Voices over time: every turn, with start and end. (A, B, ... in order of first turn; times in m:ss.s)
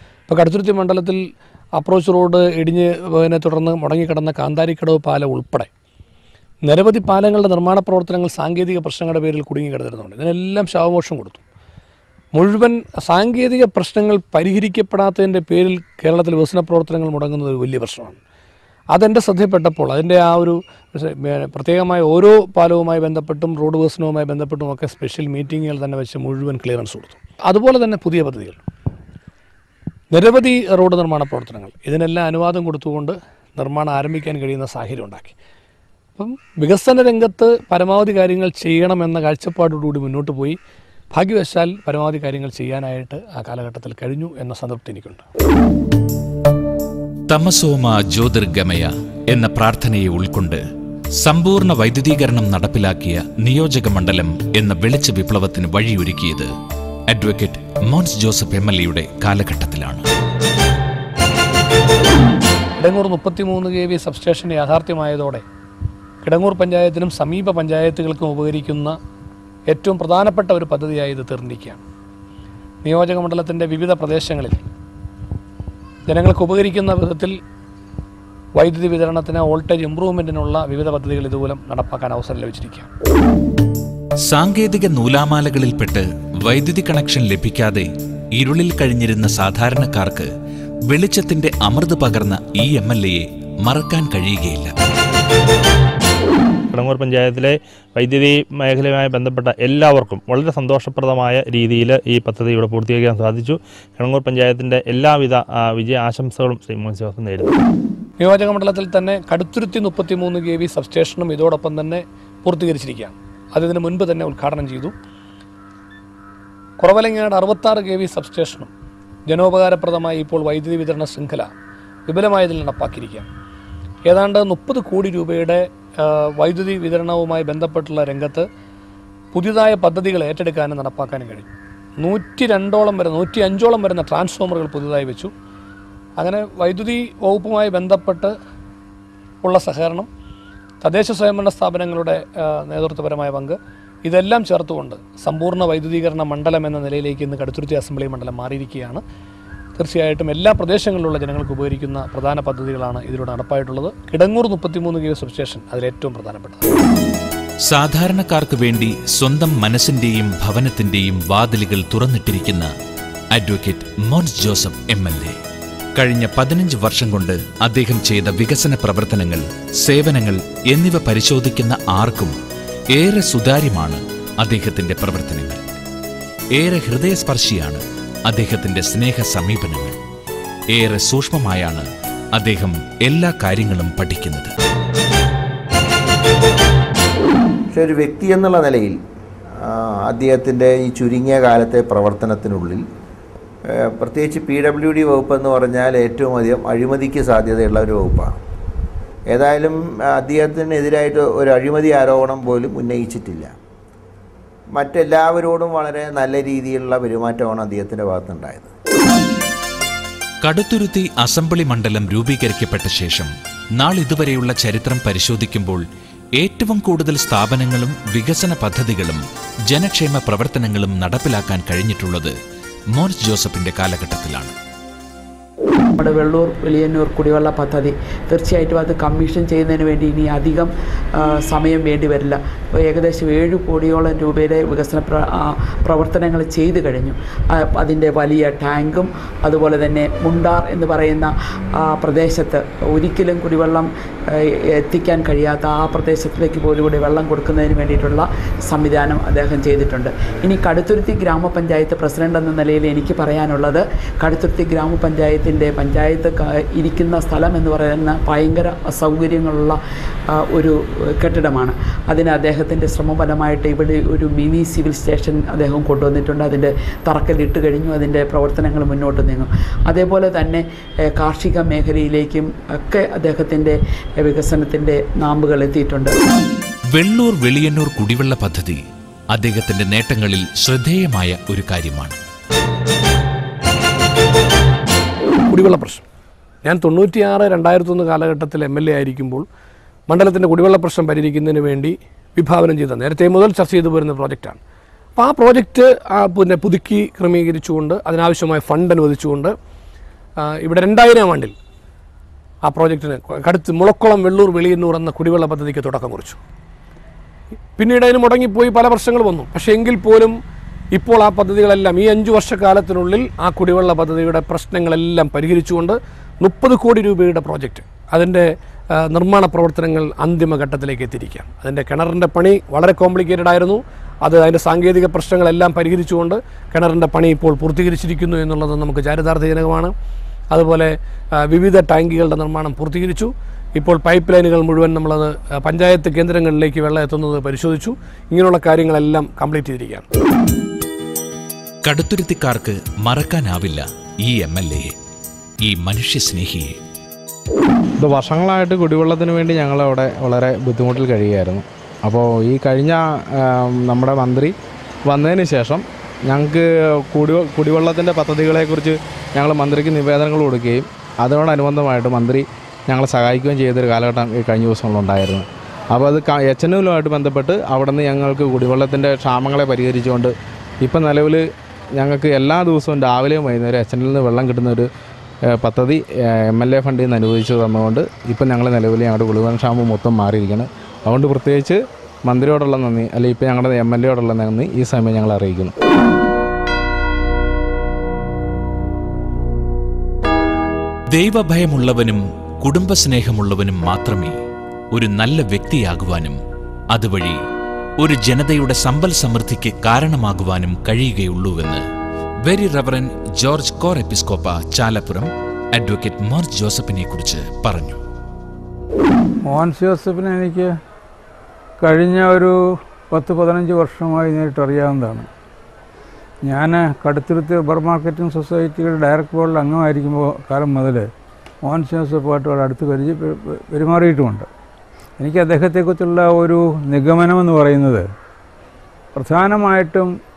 0:00.3-0:01.2 A
0:01.8-0:05.7 A
0:06.6-0:11.4 A
0:12.3-0:18.2 A
0:18.9-0:28.6 A
0:30.1-0:35.3 A
0:36.2-0:40.6 A
0:41.1-0:45.2 A
0:47.3-0:50.6 B
0:51.2-0:56.5 B
0:57.1-1:00.0 B
1:02.8-1:05.4 A
1:06.2-1:09.0 A
1:09.7-1:11.8 A
1:12.8-1:14.6 A
1:16.1-1:17.3 A
1:18.5-1:22.9 A
1:24.3-1:30.3 B
1:30.9-1:34.7 B
1:36.7-1:47.5 C
1:48.2-1:54.9 A
1:56.8-1:58.7 A
1:59.3-2:01.5 A
2:02.1-2:03.3 A
2:04.0-2:08.4 A
2:09.3-2:15.3 A
2:16.2-2:18.3 A
2:19.4-2:20.1 A
2:20.8-2:29.0 A
2:29.8-2:36.6 A
2:37.6-2:42.7 B
2:43.3-2:45.3 B
2:46.0-2:52.3 B
2:52.9-2:55.8 B
2:56.5-3:00.0 B
3:00.7-3:04.5 B
3:07.7-3:09.0 D
3:09.6-3:12.8 D
3:13.7-3:18.4 D
3:19.3-3:23.5 D
3:24.7-3:28.7 D
3:30.4-3:35.8 B
3:36.4-3:42.3 B
3:42.9-3:44.5 B
3:46.0-4:19.8 E
4:20.3-4:36.2 E
4:36.9-4:38.8 B
4:39.3-4:42.2 B
4:45.5-4:46.0 A
4:46.6-4:49.4 A
4:50.1-4:54.6 A
4:55.2-4:59.5 A
5:00.4-5:01.5 A
5:02.6-5:06.4 A
5:07.8-5:10.3 A
5:10.9-5:29.9 A
5:30.5-5:40.1 A
5:41.8-5:44.9 B
5:45.6-5:46.7 B
5:48.0-5:54.5 F
5:55.0-6:14.9 F
6:15.5-6:25.7 F
6:31.1-6:34.4 B
6:34.9-6:36.4 B
6:36.9-6:37.4 B
6:38.0-6:41.8 B
6:42.4-6:48.0 B
6:49.5-6:50.7 G
6:51.8-6:52.5 G
6:53.1-6:55.3 G
6:56.4-7:01.0 G
7:01.6-7:04.5 G
7:05.2-7:08.0 G
7:09.2-7:10.1 G